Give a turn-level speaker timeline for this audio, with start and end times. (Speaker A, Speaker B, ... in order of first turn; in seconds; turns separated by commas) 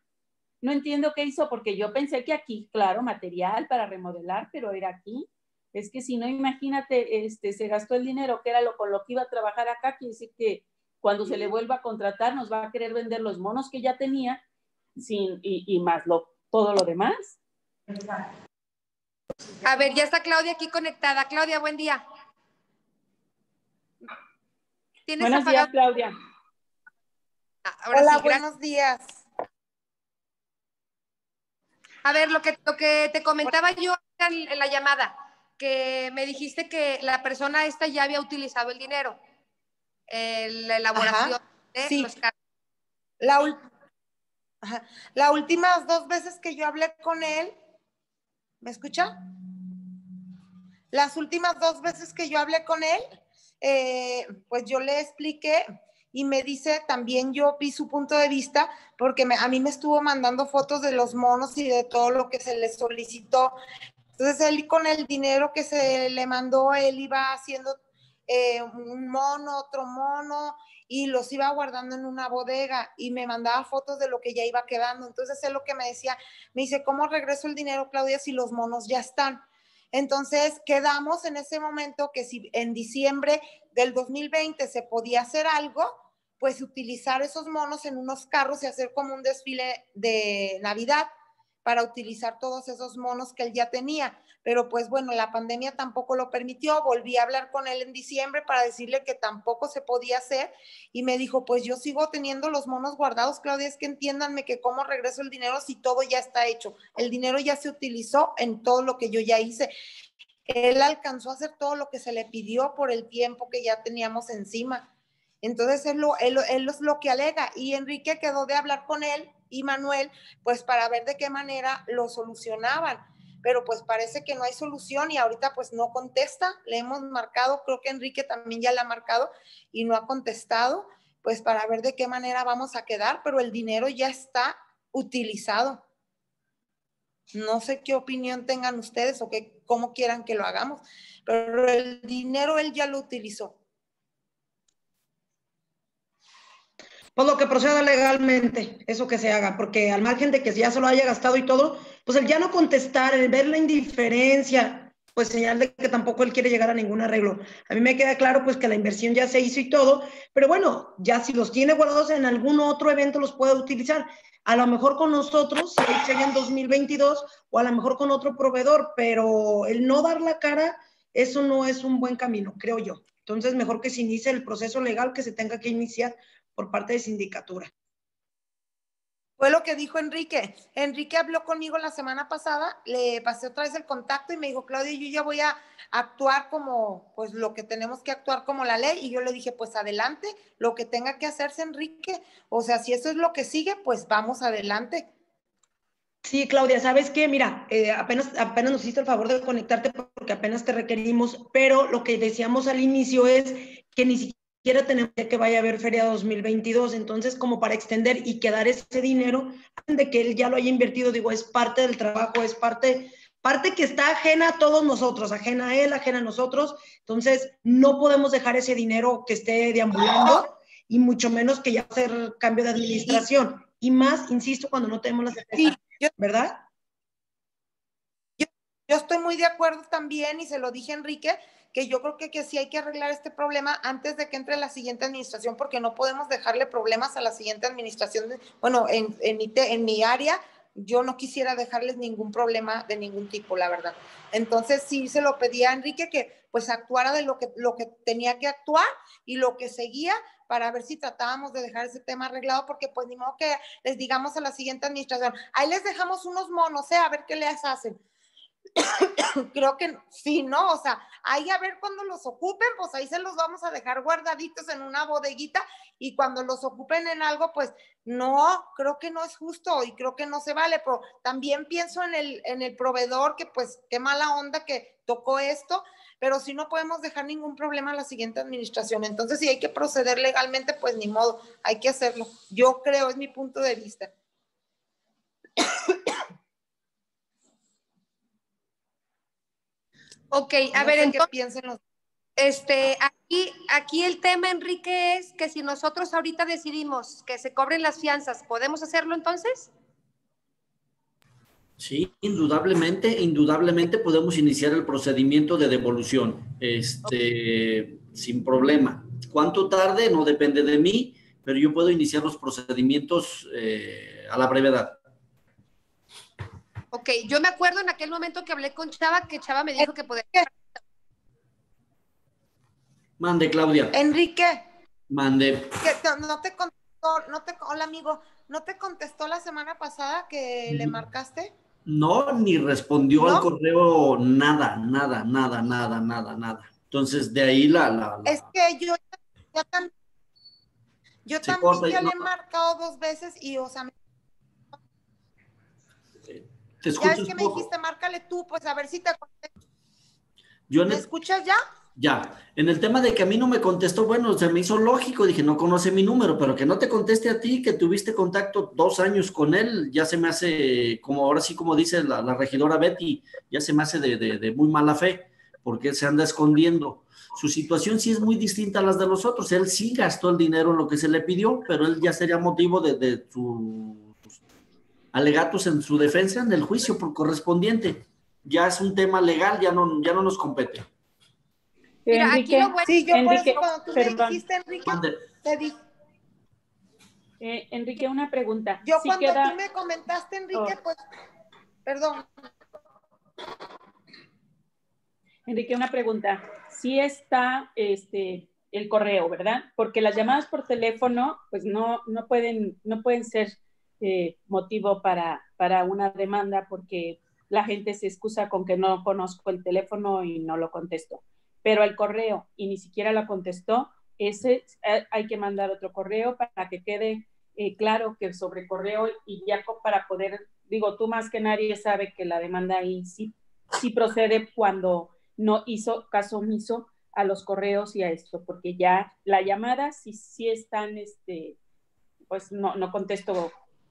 Speaker A: 0.6-14.4, Speaker A: 14.9-17.4, Speaker B: 19.6-22.0, Speaker B: 25.1-25.7, Speaker A: 25.2-26.1, Speaker B: 27.6-28.4, Speaker C: 27.9-29.1, Speaker B: 32.0-39.2, Speaker B: 40.1-42.3, Speaker C: 40.9-42.1, Speaker C: 43.2-43.6, Speaker C: 44.6-47.5, Speaker C: 48.6-49.1, Speaker C: 50.9-53.1, Speaker C: 53.6-63.5, Speaker C: 64.2-91.1, Speaker C: 91.6-109.7, Speaker C: 110.5-114.9, Speaker C: 115.4-135.8, Speaker C: 137.3-143.6, Speaker D: 147.2-177.7, Speaker C: 179.4-195.1, Speaker D: 196.2-226.6, Speaker C: 225.6-226.1, Speaker C: 228.4-258.0, Speaker C: 259.0-284.1, Speaker B: 290.3-291.2, Speaker C: 290.7-291.8, Speaker B: 292.4-299.7, Speaker E: 301.8-315.0, Speaker B: 316.9-320.7, Speaker E: 323.2-323.9, Speaker C: 323.9-324.6, Speaker E: 325.1-325.8, Speaker C: 325.8-331.5, Speaker E: 330.7-331.0, Speaker E: 331.9-338.5, Speaker C: 333.2-333.5, Speaker C: 338.2-339.9, Speaker C: 341.2-343.9, Speaker E: 341.4-342.3, Speaker E: 346.3-347.7, Speaker C: 347.0-349.5, Speaker E: 350.7-351.1, Speaker C: 350.9-351.6, Speaker E: 351.9-374.4, Speaker E: 375.1-380.9, Speaker A: 382.1-384.4, Speaker B: 382.1-382.9, Speaker C: 382.9-385.8, Speaker E: 384.8-385.2, Speaker A: 387.4-389.6, Speaker C: 388.8-391.0, Speaker C: 391.8-392.2, Speaker A: 395.5-431.6, Speaker A: 432.3-433.5